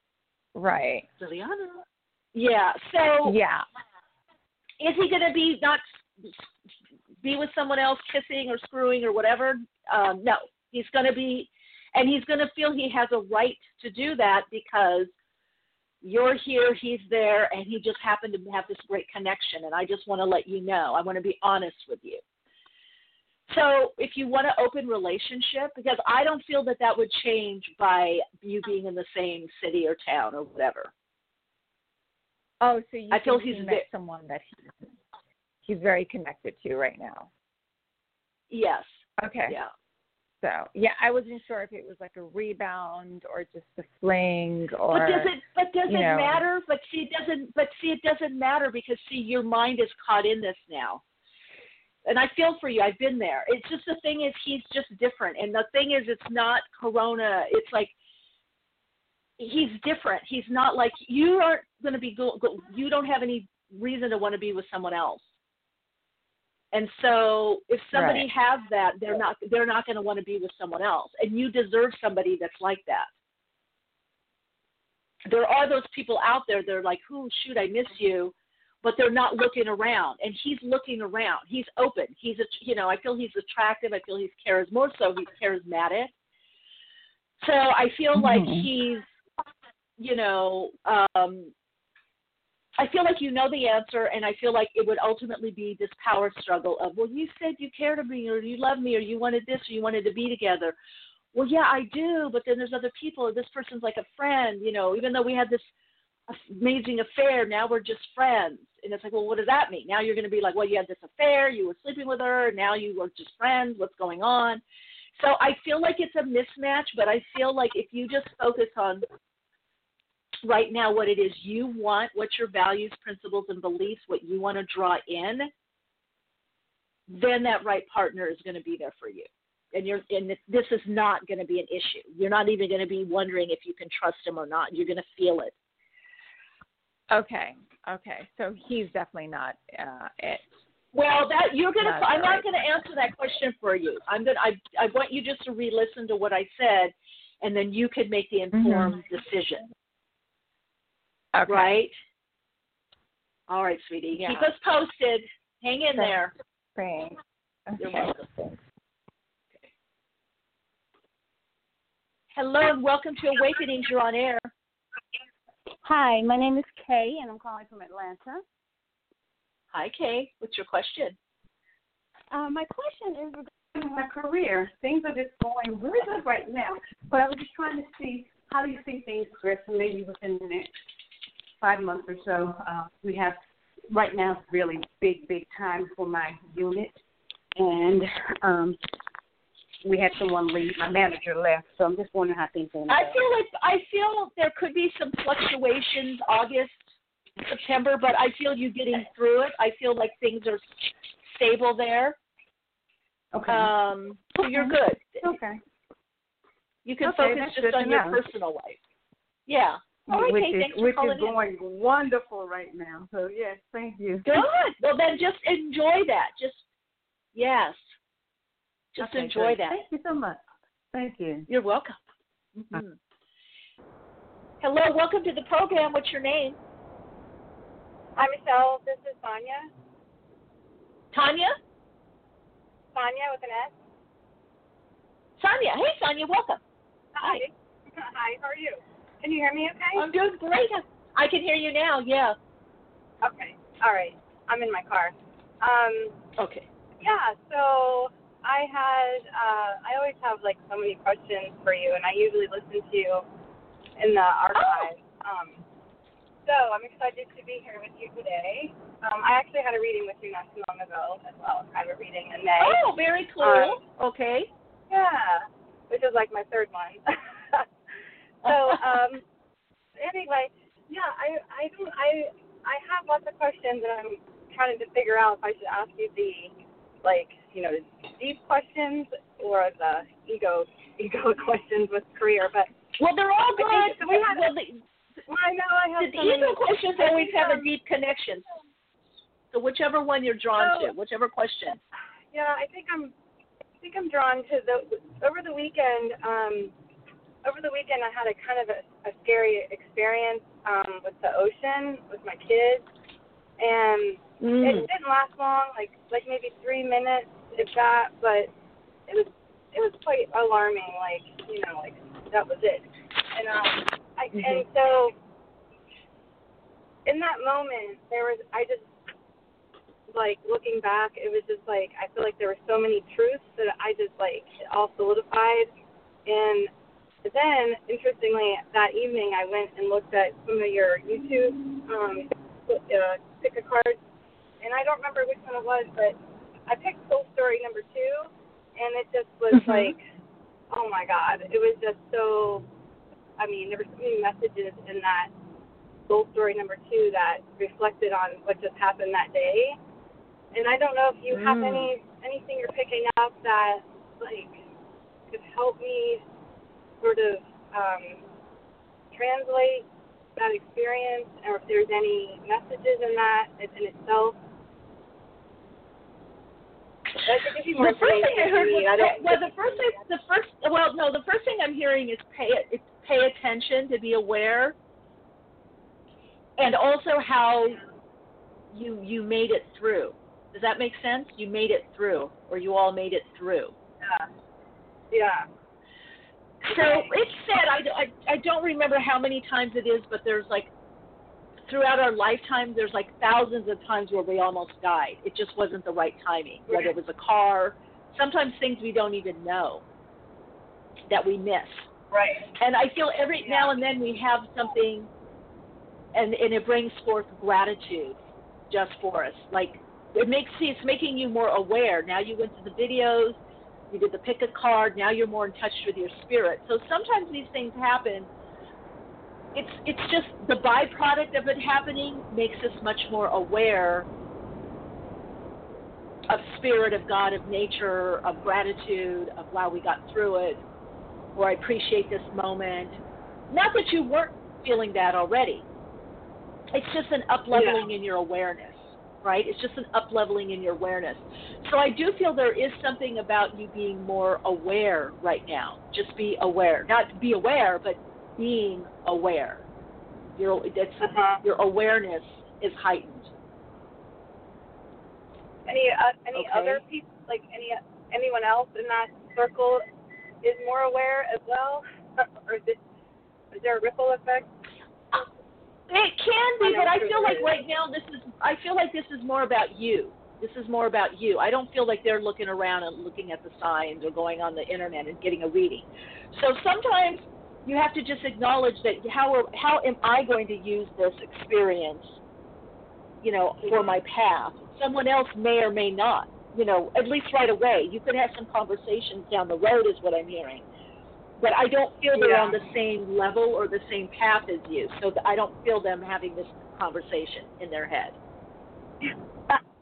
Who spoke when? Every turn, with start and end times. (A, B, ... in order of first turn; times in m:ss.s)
0:00.5-0:01.1 A
0:01.2-0:01.8 B
0:02.4-0:03.4 B
0:03.2-0:03.6 A
0:04.8-0:06.4 B
0:07.2-0:15.1 B
0:16.0-0:22.2 B
0:23.5-0:30.9 B
0:32.6-0:34.6 A
0:33.1-0:33.9 B
0:35.7-0:37.3 A
0:38.5-0:39.7 B
0:39.2-0:39.6 A
0:40.4-0:46.4 A
0:44.9-0:51.0 B
0:52.0-0:57.9 B
0:59.4-1:05.2 B
1:06.7-1:13.1 B
1:07.9-1:08.3 A
1:15.3-1:26.1 B
1:27.4-1:29.0 B
1:28.2-1:28.7 A
1:30.0-1:31.5 B
1:32.8-1:40.8 B
1:41.3-1:45.7 B
1:46.3-1:54.6 B
1:55.2-1:59.0 B
2:00.4-2:05.5 B
2:07.1-2:15.5 B
2:17.1-2:20.5 A
2:20.9-2:29.7 B
2:21.8-2:22.6 A
2:28.5-2:29.0 A
2:31.3-2:31.8 A
2:31.5-2:31.9 B
2:33.5-2:36.3 B
2:34.2-2:34.5 A
2:35.9-2:36.2 A
2:36.8-2:38.6 A
2:42.3-2:44.5 B
2:45.8-2:48.4 C
2:49.7-2:51.2 B
2:52.3-3:00.7 C
3:01.6-3:03.4 C
3:03.9-3:07.0 C
3:07.6-3:08.8 C
3:09.8-3:13.2 C
3:12.9-3:16.9 B
3:17.4-3:20.6 B
3:21.3-3:22.2 B
3:23.3-3:23.7 C
3:23.5-3:25.3 B
3:25.2-3:25.6 C
3:26.9-3:28.8 B
3:27.0-3:28.2 C
3:29.5-3:31.4 B
3:30.1-3:34.5 C
3:34.2-3:36.6 B
3:37.4-3:37.8 B
3:39.0-3:39.8 B
3:39.0-3:40.4 C
3:40.9-3:41.5 C
3:41.5-3:42.0 B
3:42.6-3:43.0 B
3:44.6-3:46.6 B
3:48.2-3:49.7 D
3:51.1-3:51.6 B
3:52.9-3:53.8 D
3:55.4-3:56.6 B
3:57.2-4:00.1 D
4:00.0-4:02.4 B
4:03.2-4:06.2 D
4:06.4-4:06.7 B
4:07.0-4:13.2 D
4:14.0-4:15.6 D
4:14.6-4:14.9 B
4:16.4-4:22.8 D
4:22.6-4:24.5 B
4:23.4-4:23.8 D
4:24.9-4:27.7 D
4:28.4-4:28.8 B
4:28.5-4:29.2 D
4:30.0-4:42.7 D
4:43.0-4:44.8 B
4:43.6-4:44.5 D
4:45.3-4:47.7 D
4:46.0-4:48.4 B
4:49.5-4:51.8 B
4:50.6-4:50.9 D
4:52.3-4:53.1 D
4:53.8-4:56.7 D
4:57.4-5:02.8 D
5:03.6-5:08.5 D
5:04.4-5:04.9 B
5:09.1-5:15.1 D
5:17.1-5:18.9 D
5:20.1-5:25.7 D
5:26.3-5:26.7 D
5:27.2-5:34.0 D
5:34.6-5:40.0 D
5:40.7-5:42.6 D
5:43.4-5:45.3 D
5:46.1-5:49.8 D
5:50.5-5:54.6 D
5:55.3-5:56.2 D
5:57.0-5:58.2 D
5:59.1-6:04.4 D
6:07.2-6:09.9 D
6:07.8-6:14.8 B
6:16.6-6:17.8 B
6:18.7-6:23.7 B
6:25.1-6:25.5 D
6:26.6-6:30.7 B
6:26.7-6:27.1 D
6:31.7-6:39.8 B
6:41.1-6:41.9 B
6:42.1-6:42.5 D
6:42.6-6:45.1 B
6:43.4-6:43.8 D
6:46.1-6:48.2 B
6:48.7-6:53.4 B
6:53.9-6:58.3 B
6:59.6-7:04.1 B
7:06.3-7:10.6 B
7:11.4-7:15.6 B
7:16.7-7:29.6 B
7:17.5-7:17.8 D
7:30.4-7:33.3 B
7:31.0-7:31.4 D
7:35.7-7:39.8 D
7:36.3-7:36.8 B
7:40.4-7:42.8 D
7:43.5-7:44.5 D
7:45.9-8:02.1 B
7:46.6-7:47.6 D
8:03.2-8:10.6 B
8:11.4-8:18.2 B
8:12.2-8:12.5 D